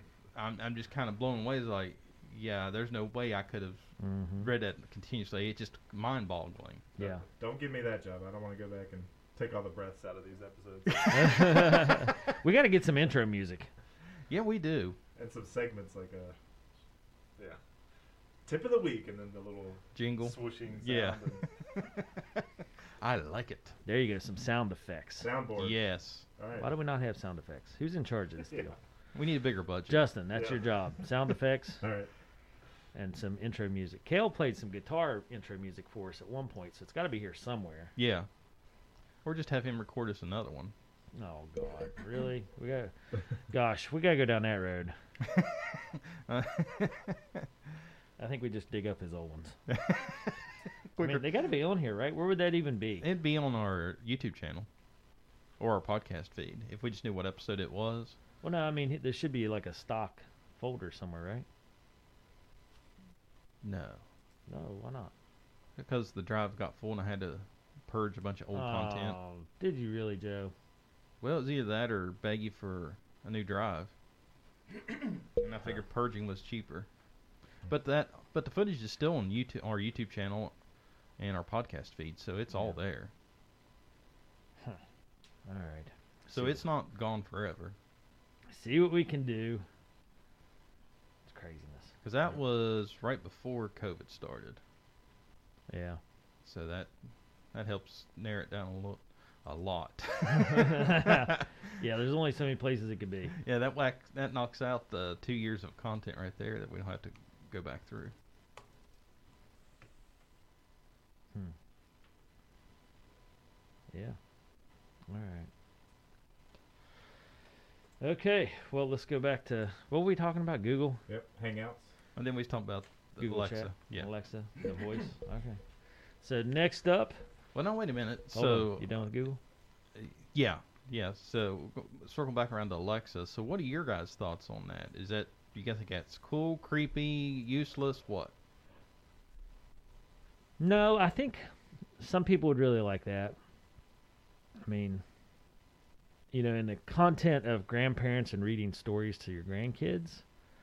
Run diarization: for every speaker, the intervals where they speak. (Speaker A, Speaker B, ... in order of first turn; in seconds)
Speaker A: 0.3-6.9, 14.3-15.0, 19.9-22.5, 23.0-23.8, 25.6-26.3, 29.1-30.1, 38.0-38.3, 39.2-40.7, 45.2-47.5, 49.7-50.4, 50.9-51.3, 53.0-54.7, 55.6-58.2, 63.6-64.0, 65.8-69.2, 71.2-73.9, 74.7-76.9, 77.7-80.5, 81.2-83.1, 86.3-87.8, 92.0-94.6, 96.4-96.9, 97.5-101.4, 103.4-108.1, 122.2-124.1, 127.5-128.9, 129.9-138.3
Speaker B: 4.0-4.5, 7.0-7.2, 11.1-13.7, 23.9-25.3, 26.6-28.8, 29.9-31.8, 32.9-37.9, 41.2-42.9, 43.5-44.9, 48.2-49.6, 51.0-53.1, 58.4-61.5, 64.5-65.1, 68.5-70.5, 85.5-86.6, 88.5-89.7, 91.3-91.9, 95.7-96.0, 100.3-103.4, 113.9-114.2, 115.1-115.5, 118.0-121.0, 123.2-125.6, 126.2-127.2, 128.3-129.4, 140.6-141.5, 142.0-143.4, 144.6-145.0, 146.3-150.2
Speaker C: 7.0-11.7, 15.2-16.4, 18.5-21.5, 25.2-25.8, 26.4-26.7, 30.3-30.7, 31.8-32.1, 121.1-121.9